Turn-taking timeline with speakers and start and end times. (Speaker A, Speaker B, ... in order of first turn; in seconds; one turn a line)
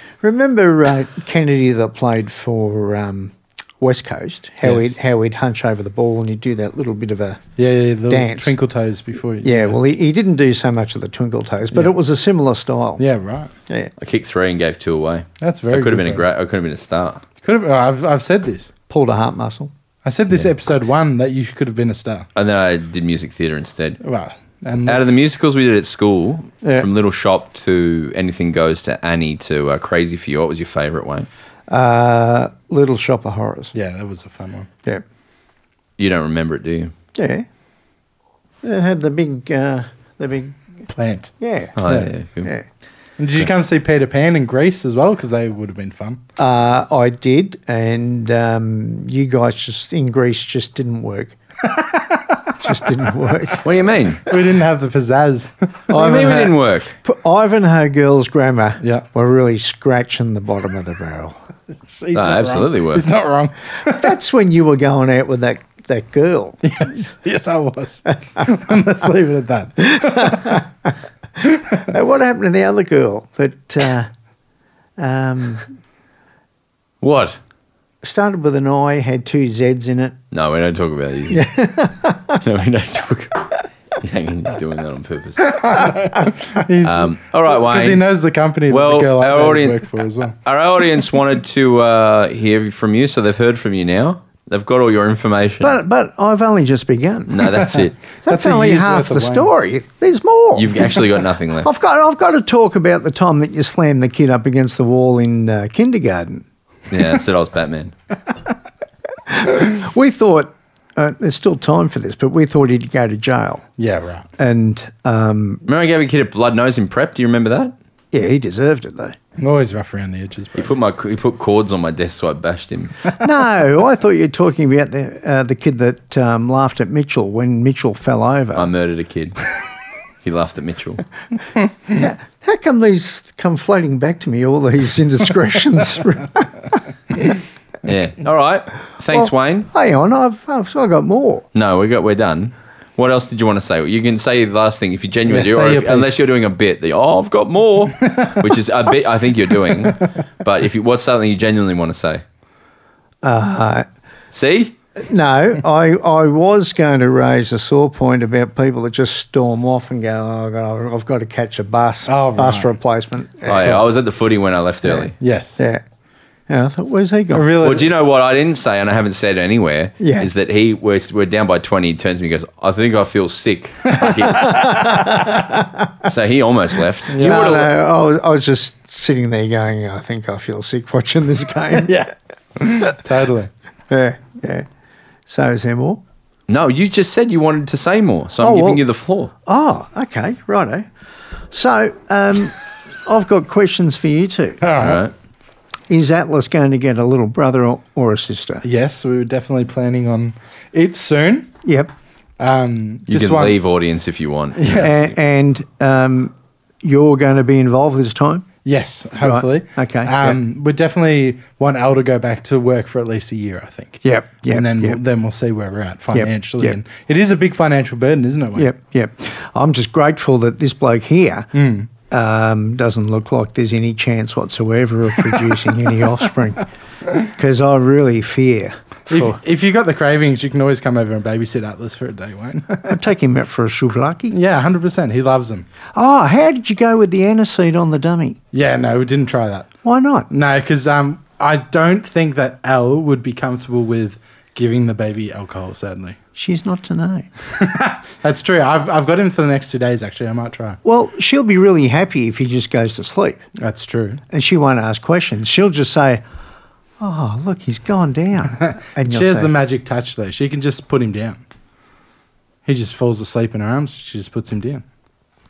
Speaker A: 0.2-7.4
Speaker B: 4.6-5.0
Speaker B: 7.6-9.8
Speaker A: 8.1-8.6
Speaker A: 9.4-13.0
Speaker B: 13.0-13.5
Speaker C: 14.0-17.2
Speaker B: 15.4-16.2
Speaker B: 17.4-18.7
Speaker A: 18.9-19.7
Speaker B: 20.0-22.3
Speaker C: 22.4-24.0
Speaker B: 24.0-25.1
Speaker C: 24.8-31.3
Speaker A: 26.6-26.9
Speaker A: 31.7-33.7
Speaker B: 33.7-34.7
Speaker C: 36.0-36.9
Speaker A: 37.1-37.5
Speaker A: 38.6-40.9
Speaker B: 40.9-41.3
Speaker A: 41.4-41.8
Speaker C: 41.8-42.5
Speaker B: 41.8-42.1
Speaker B: 43.2-46.2
Speaker A: 46.4-51.4
Speaker B: 51.6-52.5
Speaker A: 52.6-53.7
Speaker C: 53.6-54.2
Speaker B: 54.3-55.8
Speaker A: 55.9-61.4
Speaker C: 55.9-56.9
Speaker B: 58.8-59.0
Speaker B: 61.8-64.1
Speaker C: 62.1-63.0
Speaker A: 63.8-66.7
Speaker B: 66.6-70.6
Speaker A: 69.8-70.9
Speaker B: 71.4-71.9
Speaker A: 71.8-74.1
Speaker A: 75.0-75.7
Speaker C: 77.0-77.4
Speaker A: 78.0-80.2
Speaker C: 80.3-81.5
Speaker A: 81.3-82.4
Speaker C: 82.4-85.9
Speaker B: 85.5-90.4
Speaker C: 86.8-88.0
Speaker C: 88.7-95.8
Speaker A: 95.6-97.6
Speaker C: 97.3-98.0
Speaker B: 97.4-99.5
Speaker A: 98.2-101.0
Speaker C: 100.5-101.7
Speaker A: 101.6-106.4
Speaker C: 106.9-107.9
Speaker A: 109.3-113.6
Speaker B: 113.8-114.3
Speaker A: 114.4-115.6
Speaker C: 115.7-117.7
Speaker A: 118.1-119.2
Speaker B: 119.4-120.7
Speaker C: 120.5-123.0
Speaker A: 123.1-128.7
Speaker C: 128.5-129.4
Speaker C: 130.2-131.0
Speaker A: 131.9-136.8
Speaker C: 137.8-139.7
Speaker A: 139.1-141.4
Speaker C: 141.5-152.2
Speaker B: 145.3-146.2
Speaker B: 148.0-148.5
Speaker A: 153.2-153.9
Speaker C: 154.3-154.7
Speaker A: 155.0-163.9
Speaker B: 162.1-162.7
Speaker C: 163.4-165.1
Speaker B: 165.2-165.6
Speaker A: 165.6-165.8
Speaker A: 166.5-167.6
Speaker B: 167.3-167.9
Speaker C: 167.6-175.2
Speaker A: 170.0-170.3
Speaker A: 174.3-175.9
Speaker C: 176.1-177.7
Speaker B: 177.1-177.6
Speaker A: 177.2-182.1
Speaker B: 181.8-183.5
Speaker A: 183.9-184.7
Speaker A: 185.3-186.0
Speaker C: 186.5-189.3
Speaker A: 188.4-188.8
Speaker A: 189.4-190.9
Speaker A: 191.5-194.6
Speaker B: 194.6-195.0
Speaker C: 194.8-195.1
Speaker A: 195.9-198.6
Speaker B: 198.6-201.5
Speaker A: 201.6-201.9
Speaker B: 202.4-203.6
Speaker C: 203.1-205.1
Speaker B: 204.6-204.9
Speaker A: 204.7-208.4
Speaker B: 208.6-218.7
Speaker A: 209.2-210.4
Speaker A: 214.0-215.0
Speaker A: 216.1-216.8
Speaker A: 218.6-221.5
Speaker B: 221.5-221.9
Speaker A: 222.1-229.4
Speaker B: 229.1-233.0
Speaker A: 232.9-234.4
Speaker B: 234.3-235.7
Speaker A: 235.9-238.4
Speaker B: 238.5-239.7
Speaker A: 239.8-240.3
Speaker B: 240.3-246.2
Speaker A: 246.3-247.3
Speaker B: 247.6-250.8
Speaker A: 250.8-253.4
Speaker B: 253.6-254.2
Speaker A: 254.3-256.2
Speaker A: 257.0-259.5
Speaker B: 259.0-261.4
Speaker B: 262.6-264.8